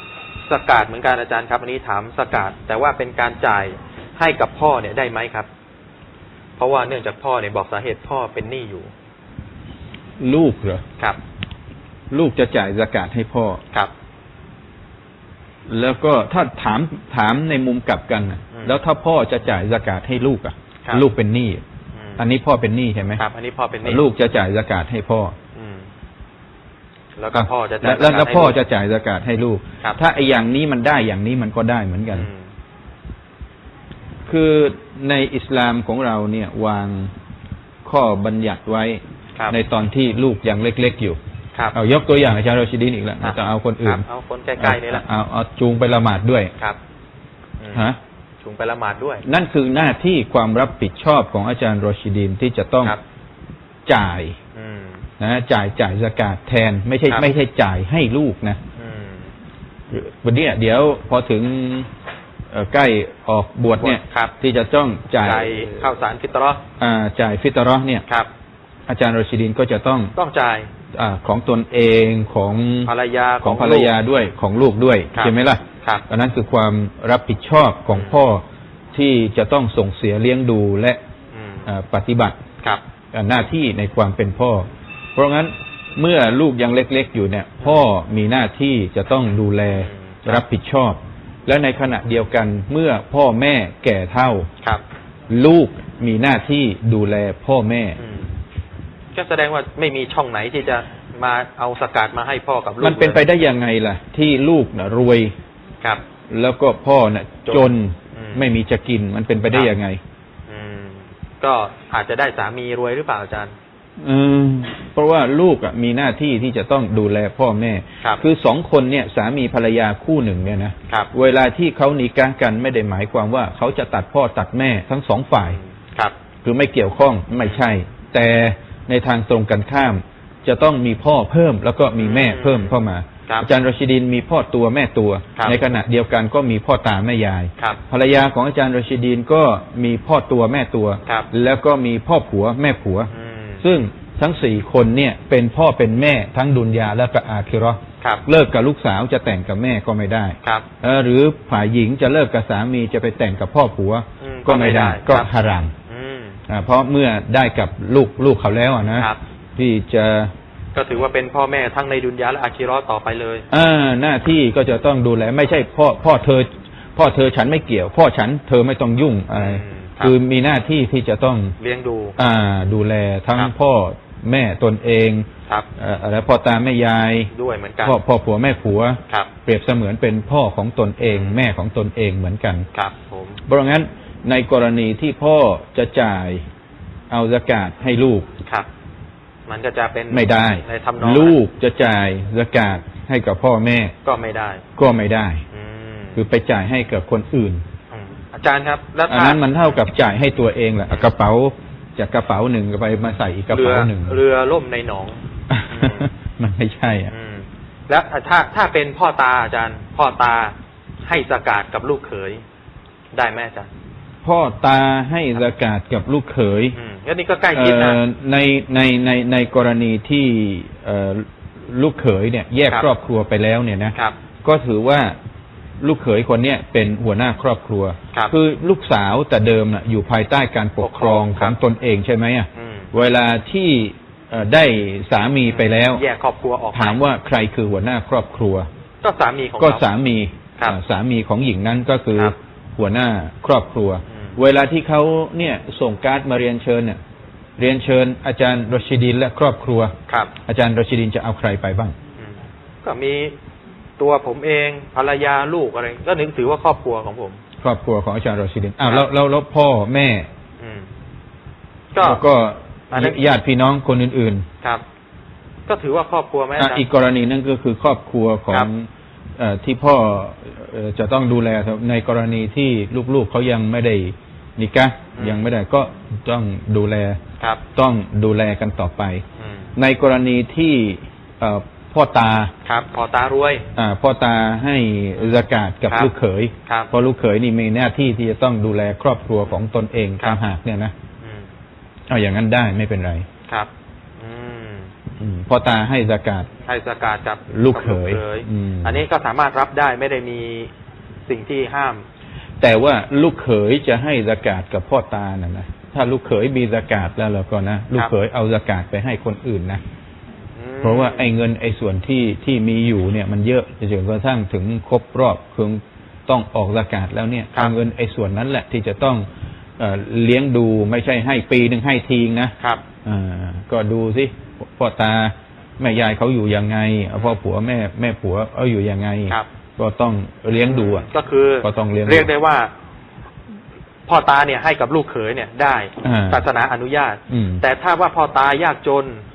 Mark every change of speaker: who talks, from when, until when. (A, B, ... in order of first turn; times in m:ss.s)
0:00.5-0:05.5 A
0:06.6-0:08.9 A
0:10.2-0:10.8 B
0:12.1-0:13.6 B
0:15.7-0:21.6 B
0:18.5-0:18.8 A
0:21.9-0:22.2 A
0:22.2-0:23.2 B
0:23.2-0:24.0 A
0:23.8-0:25.3 B
0:25.5-0:25.9 A
0:27.2-0:28.6 A
0:27.3-0:32.3 B
0:32.1-0:32.5 A
0:34.3-0:37.1 B
0:37.8-0:41.2 B
0:41.7-0:44.0 B
0:43.2-0:45.0 A
0:44.6-0:46.5 B
0:47.6-0:47.9 A
0:47.7-0:48.0 B
0:48.4-0:49.2 A
0:49.2-0:53.0 B
0:53.8-0:54.4 B
0:54.5-0:55.0 A
0:55.2-0:58.6 B
0:58.8-0:59.3 A
0:59.9-1:01.9 B
1:02.5-1:05.7 B
1:03.8-1:04.3 A
1:05.2-1:06.6 A
1:06.8-1:08.0 B
1:08.9-1:10.1 B
1:10.2-1:10.7 A
1:10.9-1:18.4 B
1:12.8-1:14.0 A
1:15.1-1:16.0 A
1:17.9-1:18.2 A
1:18.9-1:21.0 B
1:21.3-1:21.7 A
1:21.6-1:22.4 B
1:23.1-1:34.5 B
1:29.8-1:30.4 A
1:35.3-1:38.0 B
1:38.0-1:38.3 A
1:39.1-1:43.2 A
1:42.8-1:45.3 B
1:46.3-1:50.0 B
1:47.5-1:48.4 A
1:50.5-1:53.5 A
1:54.0-2:05.6 B
2:05.4-2:06.1 A
2:06.4-2:23.1 B
2:12.0-2:12.7 A
2:15.4-2:15.6 A
2:23.1-2:23.6 A
2:23.6-2:35.7 B
2:34.2-2:35.3 A
2:35.8-2:36.4 A
2:36.5-2:40.3 B
2:40.7-2:43.4 A
2:43.5-2:51.5 B
2:49.3-2:50.1 A
2:51.6-2:52.2 A
2:52.2-2:55.2 B
2:55.8-2:57.3 B
2:57.3-2:58.0 A
2:57.8-3:02.7 B
3:01.0-3:01.4 A
3:02.7-3:03.4 A
3:03.4-3:06.4 B
3:07.1-3:08.3 B
3:09.5-3:11.4 A
3:10.1-3:13.9 B
3:14.0-3:14.6 A
3:14.8-3:15.4 B
3:15.5-3:16.2 A
3:16.2-3:17.6 B
3:17.9-3:19.5 A
3:19.1-3:24.2 B
3:23.5-3:26.1 A
3:25.5-3:27.1 B
3:27.1-3:30.5 A
3:31.0-3:32.4 A
3:33.1-3:33.7 A
3:34.2-3:36.8 B
3:36.8-3:38.0 A
3:37.5-3:45.1 B
3:45.8-3:56.0 B
3:50.8-3:51.6 A
3:52.5-3:52.9 A
3:55.5-3:57.0 A
3:56.7-3:58.7 B
3:59.0-3:59.8 A
3:59.6-4:07.0 B
4:04.1-4:04.4 A
4:07.6-4:09.9 B
4:10.1-4:10.3 A
4:10.5-4:11.9 B
4:12.2-4:13.4 A
4:14.0-4:17.4 A
4:17.6-4:20.3 B
4:20.6-4:20.9 A
4:21.9-4:22.2 A
4:22.0-4:24.4 B
4:22.9-4:23.2 A
4:25.7-4:26.8 A
4:26.6-4:28.9 B
4:29.4-4:37.2 B
4:35.2-4:35.4 A
4:37.7-4:39.2 B
4:39.4-4:39.7 A
4:39.8-4:42.5 B
4:42.6-4:43.6 A
4:43.7-4:50.9 B
4:45.9-4:46.1 A
4:51.2-4:51.5 A
4:52.1-4:53.2 B
4:53.5-4:54.9 A
4:55.2-4:56.5 B
4:56.6-5:00.7 A
4:57.5-4:59.0 B
5:01.3-5:02.0 A
5:02.6-5:09.8 B
5:10.6-5:11.3 A
5:10.8-5:19.2 B
5:19.8-5:22.5 B
5:23.0-5:31.1 B
5:30.6-5:32.7 A
5:31.6-5:32.3 B
5:34.1-5:39.2 A
5:36.0-5:36.4 B
5:37.3-5:37.6 B